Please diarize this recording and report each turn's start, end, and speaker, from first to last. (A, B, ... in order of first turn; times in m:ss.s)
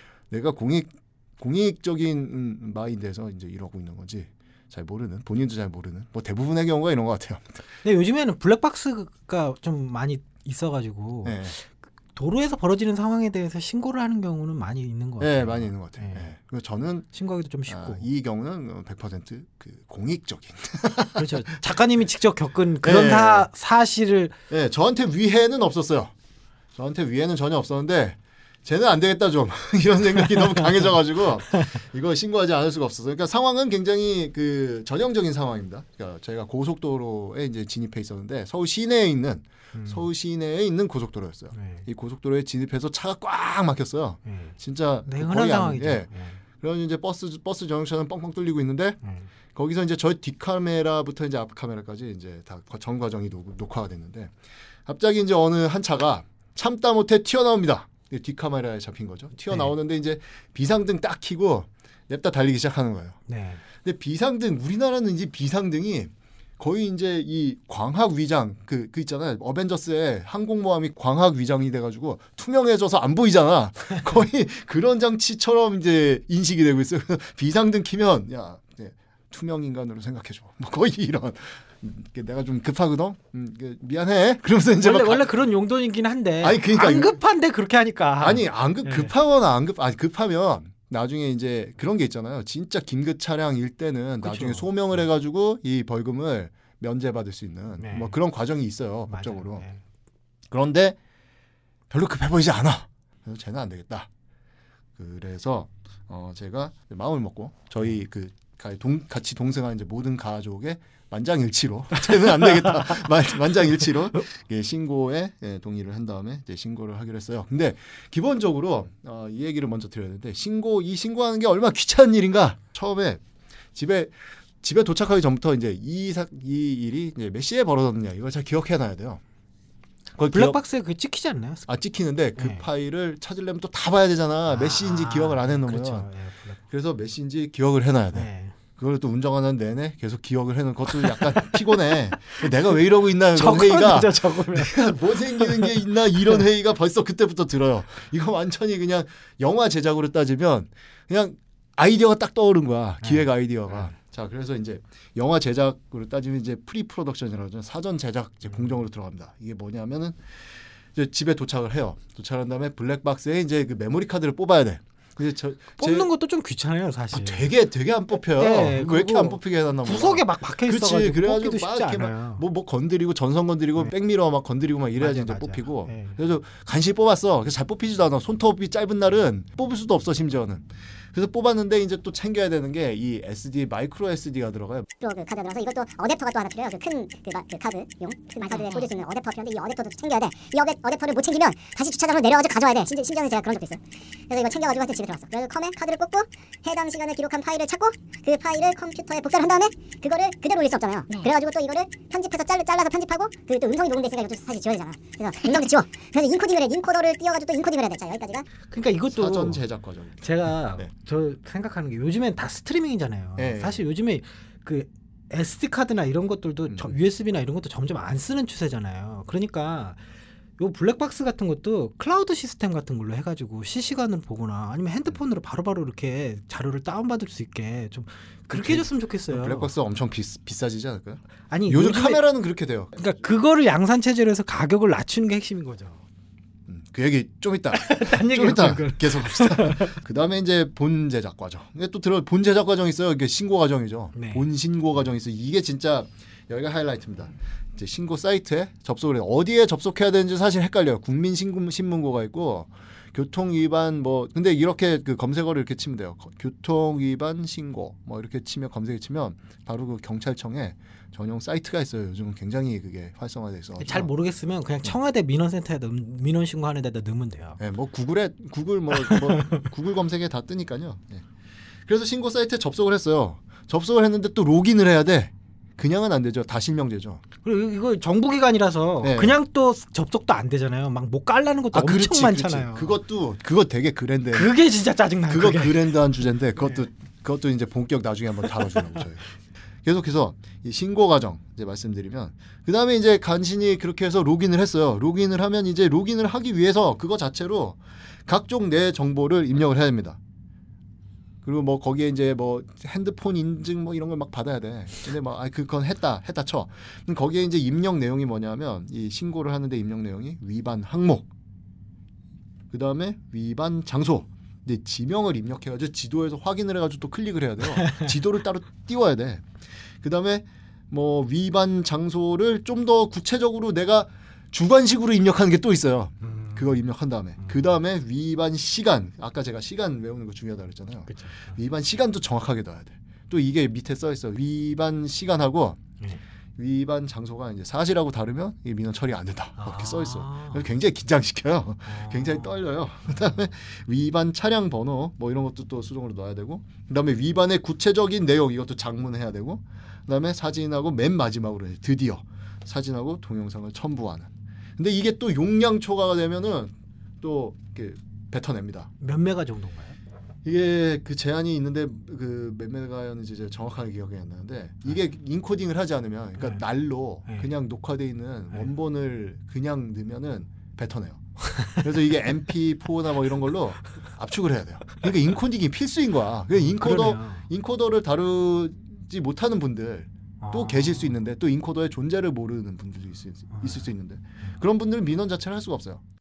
0:00.3-0:07.5 A
0:07.8-0:16.3 B
0:11.2-0:11.6 A
0:15.2-0:17.0 A
0:17.1-0:18.0 B
0:17.7-0:21.6 A
0:21.1-0:24.3 B
0:22.8-0:23.4 A
0:24.5-0:26.1 A
0:26.8-0:49.0 A
0:39.7-0:40.1 B
0:41.5-0:41.8 B
0:44.2-0:46.4 B
0:49.0-0:49.3 B
0:49.5-0:54.3 A
0:54.8-1:03.2 A
1:03.3-1:03.6 B
1:03.8-1:25.2 A
1:24.8-1:29.1 B
1:26.4-1:27.2 A
1:28.2-1:39.6 A
1:34.2-1:34.7 B
1:37.8-1:38.2 B
1:39.1-1:39.8 B
1:40.5-1:41.0 A
1:41.9-1:44.1 A
1:45.0-2:03.2 A
1:52.1-1:53.0 B
2:03.7-2:09.2 A
2:10.2-2:10.6 A
2:10.3-2:11.7 B
2:11.7-2:16.1 A
2:12.4-2:12.6 B
2:14.5-2:16.6 B
2:16.7-2:46.1 A
2:18.1-2:18.5 B
2:20.9-2:26.4 B
2:45.8-2:47.5 B
2:47.1-3:04.9 A
2:48.3-2:52.4 B
2:55.0-2:56.2 B
3:05.0-3:28.5 C
3:28.7-3:29.6 B
3:29.1-3:30.9 A
3:30.2-3:40.0 B
3:33.4-3:33.8 A
3:36.7-3:36.9 A
3:40.6-3:49.7 B
3:48.5-3:53.1 A
3:51.5-3:52.2 B
3:53.0-3:56.0 B
3:56.7-4:24.1 A
3:57.7-4:00.0 B
4:04.1-4:04.4 B
4:23.8-4:27.6 B
4:27.6-4:31.2 A
4:29.0-4:29.6 B
4:31.9-4:37.2 A
4:37.4-4:43.0 B
4:39.0-4:39.4 A
4:41.7-4:44.5 A
4:44.3-4:45.9 B
4:45.3-4:49.2 A
4:49.8-5:00.2 A
5:01.4-5:11.3 A
5:12.7-5:35.8 A
5:26.2-5:26.8 B
5:31.1-5:31.5 B
5:36.6-5:58.9 A
5:39.6-5:40.6 B
5:41.9-5:42.6 B
5:59.0-6:00.0 B
6:00.4-6:26.0 A
6:06.4-6:06.6 B
6:16.5-6:17.4 B
6:20.4-6:21.2 B
6:23.6-6:23.9 B